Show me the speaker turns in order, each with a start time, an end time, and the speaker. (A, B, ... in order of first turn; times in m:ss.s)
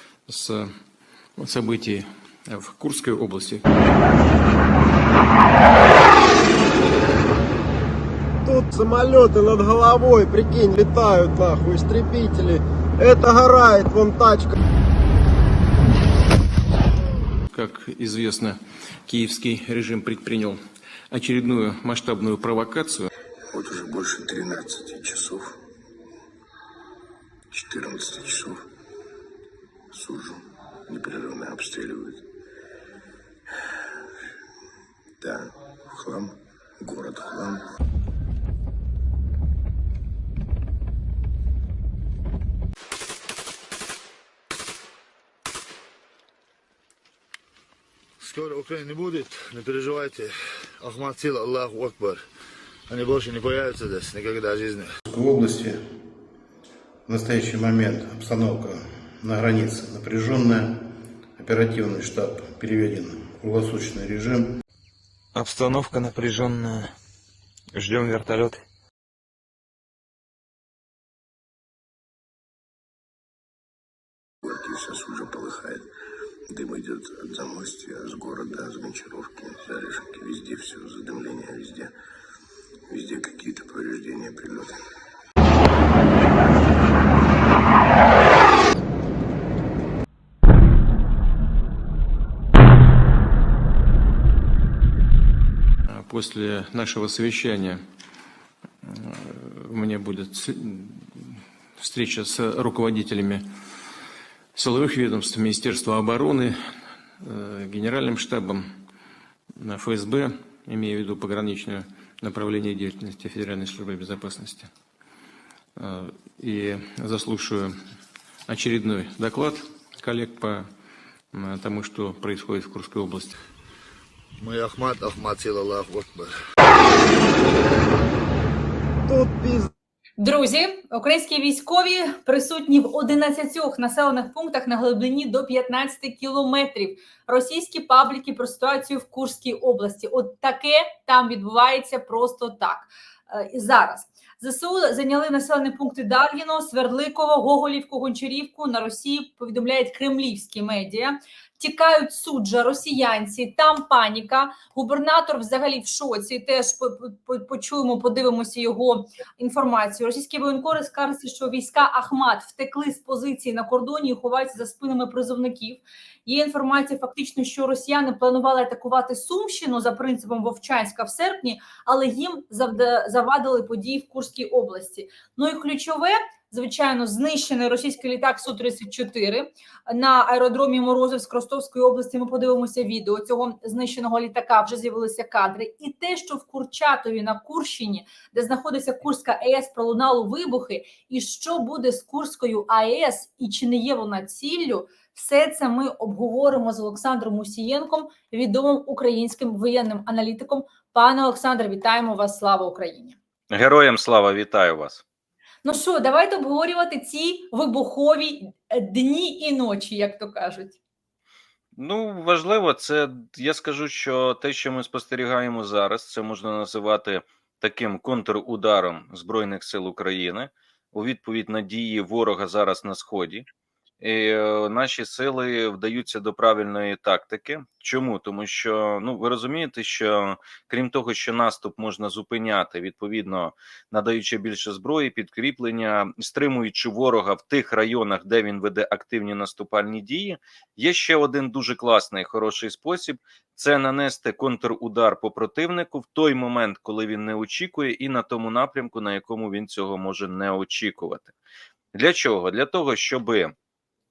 0:00.3-0:00.7 A
0:01.4-0:03.6 A
0:08.4-0:14.5 B
0:17.5-0:23.1 A
0:23.5-0:25.6 C
0:27.5-0:28.6 C
0:29.9-0:32.2 C
0:35.2-0:37.6 C
0:48.2-0:52.2 D
0:52.9-0:54.9 D
0:55.1-0:55.8 E
0:57.1-1:00.8 E
1:01.4-1:04.5 E
1:05.4-1:06.9 F
1:07.7-1:08.6 F
1:14.4-1:15.9 C
1:16.5-1:21.9 C
1:22.9-1:24.8 C
1:35.9-1:37.8 A
1:38.8-1:43.5 A
1:44.6-1:46.6 A
1:47.2-1:48.7 A
1:49.6-1:54.7 A
1:55.8-1:57.8 A
1:58.5-2:00.7 A
2:01.3-2:03.3 A
2:04.4-2:06.3 D
2:09.1-2:09.7 B
2:10.2-3:23.2 G
3:23.5-3:25.0 H
3:25.6-3:30.8 G
3:31.8-3:43.5 H
3:44.0-4:11.3 H
4:11.9-4:13.5 H